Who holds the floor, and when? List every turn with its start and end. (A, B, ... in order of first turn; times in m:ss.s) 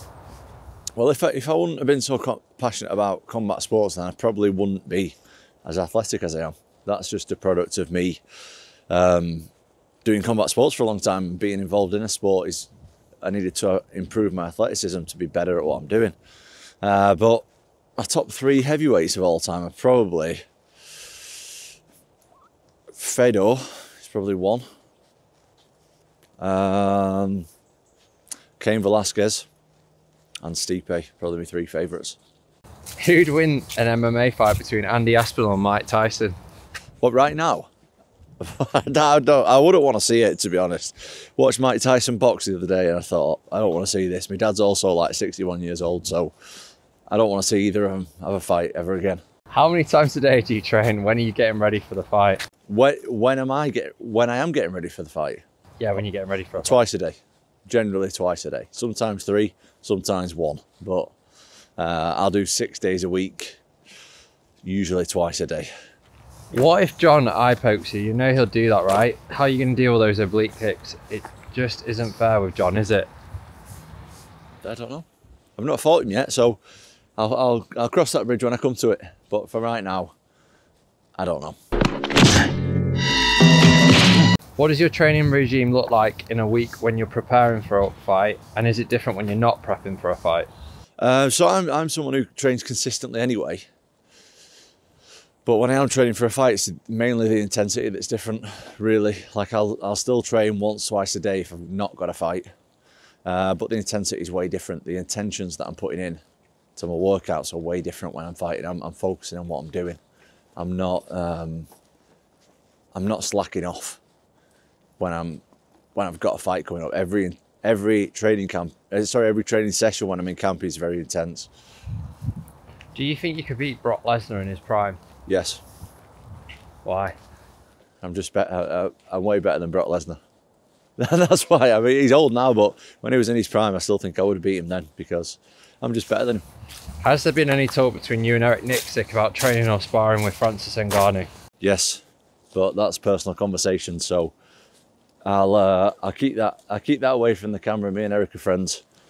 0:01.0-0:08.2 A
0:08.9-0:09.5 A
0:10.0-0:12.7 A
0:13.2-0:16.2 A
0:16.8-0:17.4 A
0:18.0-0:20.4 A
0:23.0-0:24.6 A
0:26.4-0:27.5 A
0:28.6-0:29.5 A
0:30.4-0:32.2 A
0:33.0-0:36.4 B
0:37.0-0:37.7 A
0:38.4-0:46.3 A
0:47.1-0:49.2 A
0:49.5-0:52.4 B
0:52.7-0:55.4 A
0:55.8-0:56.8 B
0:56.6-1:01.1 A
1:01.8-1:03.6 A
1:04.6-1:05.7 A
1:06.5-1:13.1 B
1:14.6-1:15.1 A
1:15.6-1:16.6 A
1:17.2-1:20.1 A
1:21.2-1:21.6 A
1:24.6-1:30.5 B
1:31.0-1:33.6 A
1:35.5-1:42.5 A
1:43.2-1:46.2 A
1:46.8-1:50.0 A
1:50.6-1:51.7 A
1:52.9-1:54.0 A
1:55.0-1:55.4 A
1:56.0-2:01.5 A
2:02.9-2:05.0 B
2:05.3-2:05.6 A
2:06.8-2:07.2 B
2:08.0-2:10.2 A
2:11.0-2:16.4 A
2:17.0-2:21.3 B
2:21.6-2:22.0 A
2:22.5-2:24.3 A
2:25.2-2:28.8 A